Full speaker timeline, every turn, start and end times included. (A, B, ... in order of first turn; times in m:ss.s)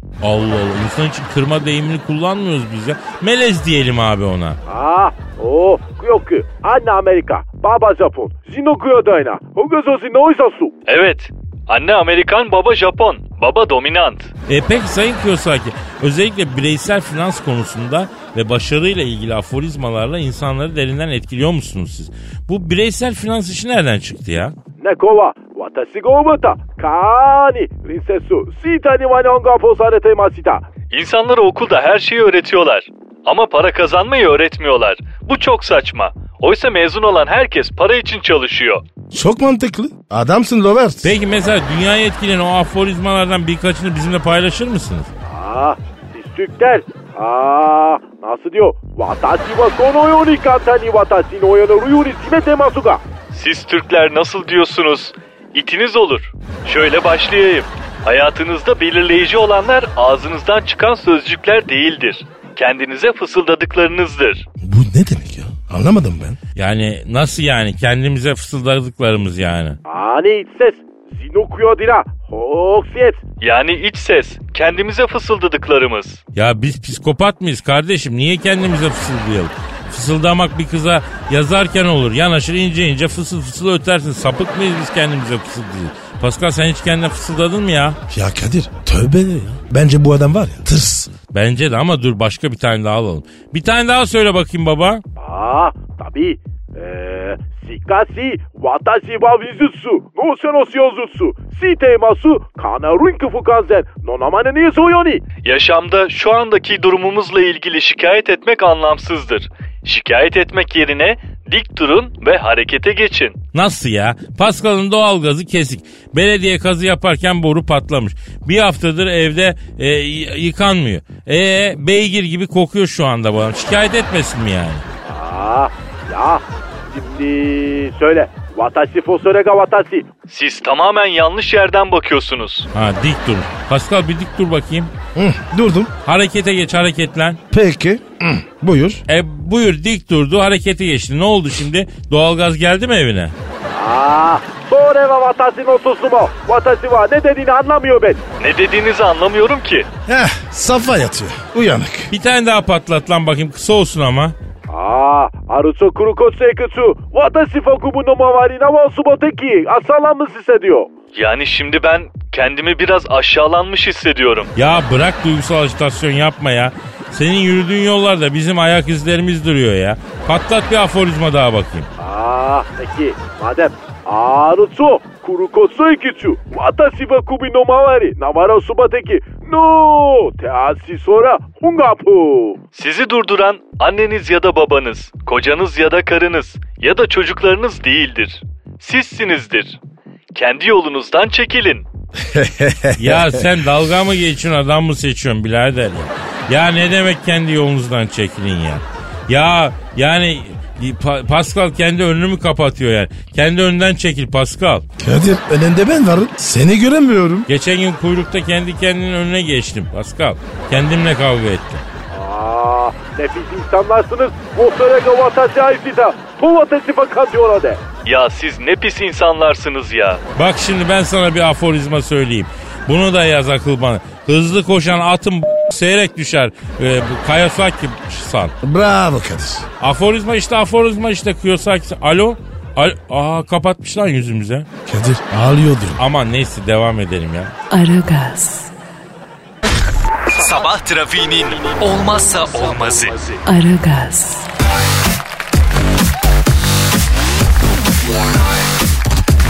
0:00.2-0:04.6 A
0:04.7-0:10.8 B
0:10.9-0:14.3 C
0:14.5-0:24.5 A
0:24.8-0:30.6 B
0:30.9-0:38.8 C
0:39.1-0:41.1 D
0:41.0-0:45.1 A
0:45.3-0:53.0 B
0:53.3-1:04.4 C
1:04.6-1:06.4 D
1:06.6-1:09.8 A
1:09.9-1:13.2 B
1:13.4-1:16.2 C
1:16.4-1:28.0 A
1:28.1-1:31.1 D
1:31.3-1:35.0 A
1:35.2-1:45.2 B
1:45.4-1:53.4 C
1:53.5-2:04.8 A
2:05.0-2:10.1 B
2:10.3-2:12.7 C
2:12.7-2:14.9 A
2:15.2-2:15.9 D
2:16.0-2:17.4 A
2:17.5-2:19.0 D
2:19.1-2:23.4 A
2:23.7-2:28.2 B
2:28.4-2:29.9 C
2:30.1-2:32.1 D
2:32.1-2:34.4 A
2:34.7-2:40.9 B
2:41.1-2:44.5 C
2:44.6-2:51.9 A
2:52.0-3:02.6 B
3:02.8-3:09.8 C
3:10.3-3:11.9 C
3:12.3-3:13.4 D
3:13.0-3:24.8 A
3:25.0-3:27.5 D
3:27.5-3:31.8 A
3:32.1-3:37.8 B
3:38.0-3:40.2 C
3:40.4-3:48.5 A
3:48.6-3:49.6 D
3:49.8-3:54.7 A
3:54.9-3:56.0 D
3:56.0-3:57.5 A
3:57.7-3:58.7 E
4:00.3-4:03.4 F
4:03.5-4:04.5 E